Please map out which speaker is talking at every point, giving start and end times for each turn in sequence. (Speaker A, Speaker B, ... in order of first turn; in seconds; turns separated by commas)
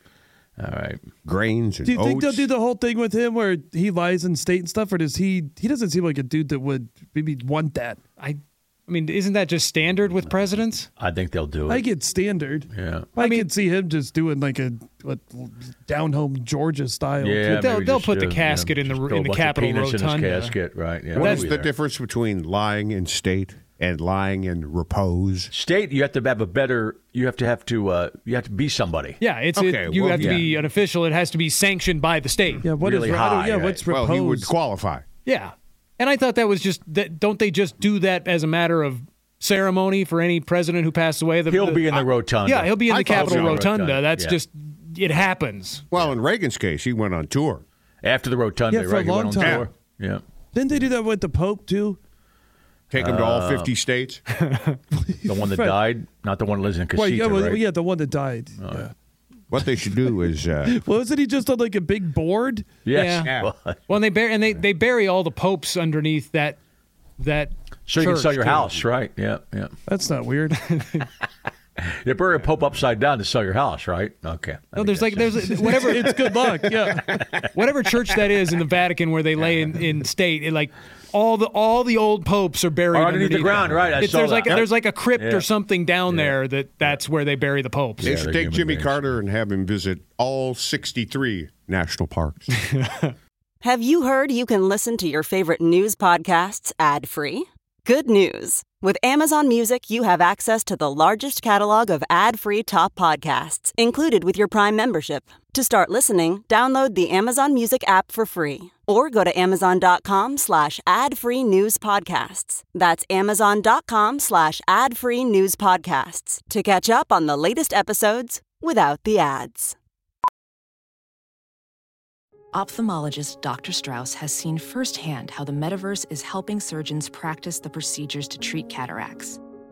Speaker A: 0.6-1.0, Speaker B: 1.2-2.5, Speaker C: 1.8-8.0, Speaker D: 8.2-10.9, Speaker A: 11.0-11.8, Speaker C: 11.7-17.6, Speaker A: 12.7-13.1, Speaker D: 13.2-13.5, Speaker A: 17.2-21.7, Speaker D: 17.5-20.5, Speaker B: 21.1-25.5, Speaker D: 21.2-21.4, Speaker A: 25.5-29.2, Speaker D: 29.2-32.6, Speaker B: 29.6-30.5, Speaker A: 30.2-30.4, Speaker C: 32.6-34.5, Speaker A: 32.8-33.8, Speaker B: 33.9-35.0, Speaker D: 35.2-45.8, Speaker A: 41.5-44.4, Speaker B: 42.9-43.6, Speaker B: 45.9-47.6, Speaker A: 48.0-50.2, Speaker C: 48.7-49.7, Speaker B: 49.4-49.7, Speaker C: 50.5-52.0, Speaker B: 52.9-54.2, Speaker A: 53.0-53.7, Speaker D: 54.4-54.8, Speaker C: 55.2-55.8, Speaker A: 55.2-57.6, Speaker C: 56.9-58.9, Speaker A: 58.6-58.9, Speaker B: 59.5-60.8, Speaker C: 60.6-62.8, Speaker A: 62.8-63.9, Speaker D: 62.9-63.3, Speaker D: 63.9-66.6, Speaker D: 67.2-68.7, Speaker A: 67.9-69.7, Speaker C: 69.9-70.7, Speaker D: 70.7-71.0, Speaker A: 71.8-76.0, Speaker D: 74.8-76.1, Speaker C: 75.4-77.2, Speaker D: 77.5-88.1, Speaker A: 82.9-85.5, Speaker A: 86.1-87.0, Speaker A: 88.0-89.1, Speaker B: 88.0-92.5, Speaker E: 93.6-119.8, Speaker F: 122.5-129.4